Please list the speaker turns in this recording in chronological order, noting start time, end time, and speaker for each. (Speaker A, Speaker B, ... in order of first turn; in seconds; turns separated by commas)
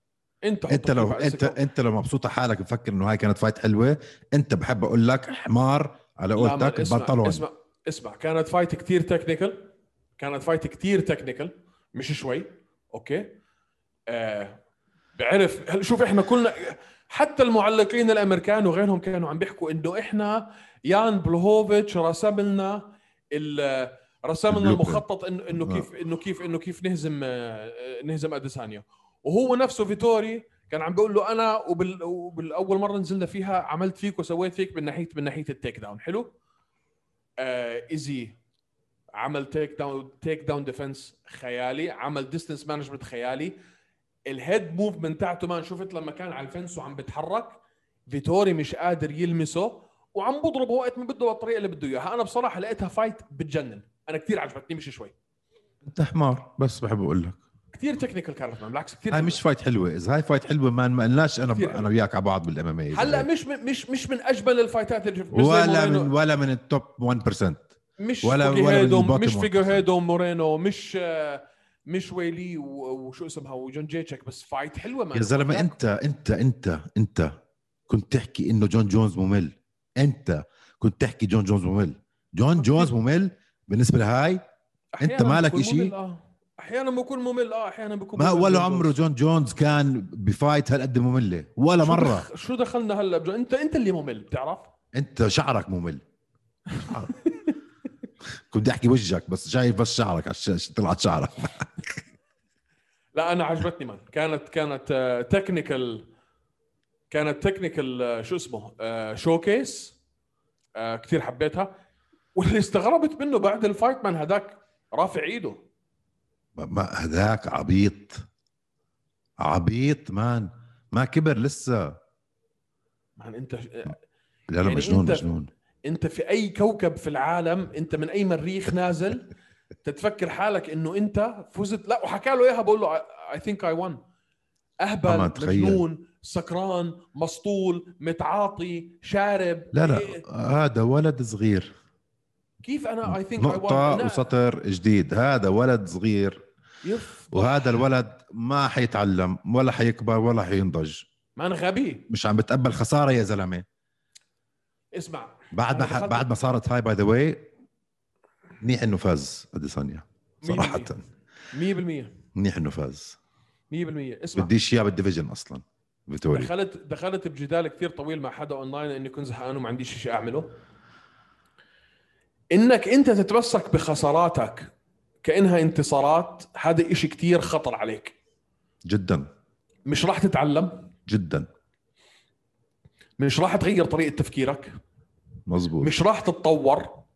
Speaker A: 0.4-1.6, Speaker B: 0.7-7.5, Speaker A: 6.3-13.4, Speaker A: 14.1-14.6, Speaker A: 15.2-36.3, Speaker B: 24.5-25.0, Speaker B: 25.6-25.9, Speaker A: 37.4-38.4, Speaker A: 39.1-43.6, Speaker A: 44.3-55.1, Speaker B: 55.8-57.4, Speaker A: 57.7-59.4, Speaker B: 59.1-63.3, Speaker A: 61.5-61.9, Speaker A: 62.9-66.1, Speaker B: 65.3-67.7, Speaker A: 68.0-75.8, Speaker B: 68.2-69.8, Speaker B: 75.1-77.3, Speaker B: 77.9-84.4, Speaker A: 82.6-82.9, Speaker A: 85.0-89.0, Speaker B: 85.0-85.9, Speaker B: 88.2-92.3, Speaker A: 91.8-94.7, Speaker B: 94.9-96.0, Speaker A: 96.8-97.5, Speaker B: 98.5-101.9, Speaker A: 103.2-106.1, Speaker A: 107.1-110.0, Speaker A: 110.8-111.8, Speaker A: 112.3-115.6, Speaker B: 116.6-118.2, Speaker B: 119.4-122.0, Speaker A: 123.2-124.0, Speaker B: 124.5-125.5, Speaker A: 124.6-125.3, Speaker A: 125.8-129.3, Speaker A: 129.8-134.0, Speaker A: 134.8-140.2, Speaker B: 135.1-135.8, Speaker B: 139.7-141.7, Speaker A: 142.6-144.3, Speaker B: 143.1-146.4, Speaker A: 146.8-147.8, Speaker B: 147.3-151.1, Speaker A: 151.4-152.1, Speaker B: 152.1-153.7, Speaker A: 154.9-156.3, Speaker B: 155.5-157.5, Speaker B: 158.6-161.0, Speaker A: 160.4-160.9, Speaker A: 161.5-162.1, Speaker B: 162.3-163.2, Speaker A: 163.7-164.5, Speaker B: 164.4-166.5, Speaker A: 166.3-170.6, Speaker A: 172.5-178.2, Speaker B: 178.9-179.3, Speaker A: 179.9-180.9, Speaker B: 181.1-181.5, Speaker A: 183.2-184.7, Speaker B: 185.5-185.9, Speaker A: 185.8-187.1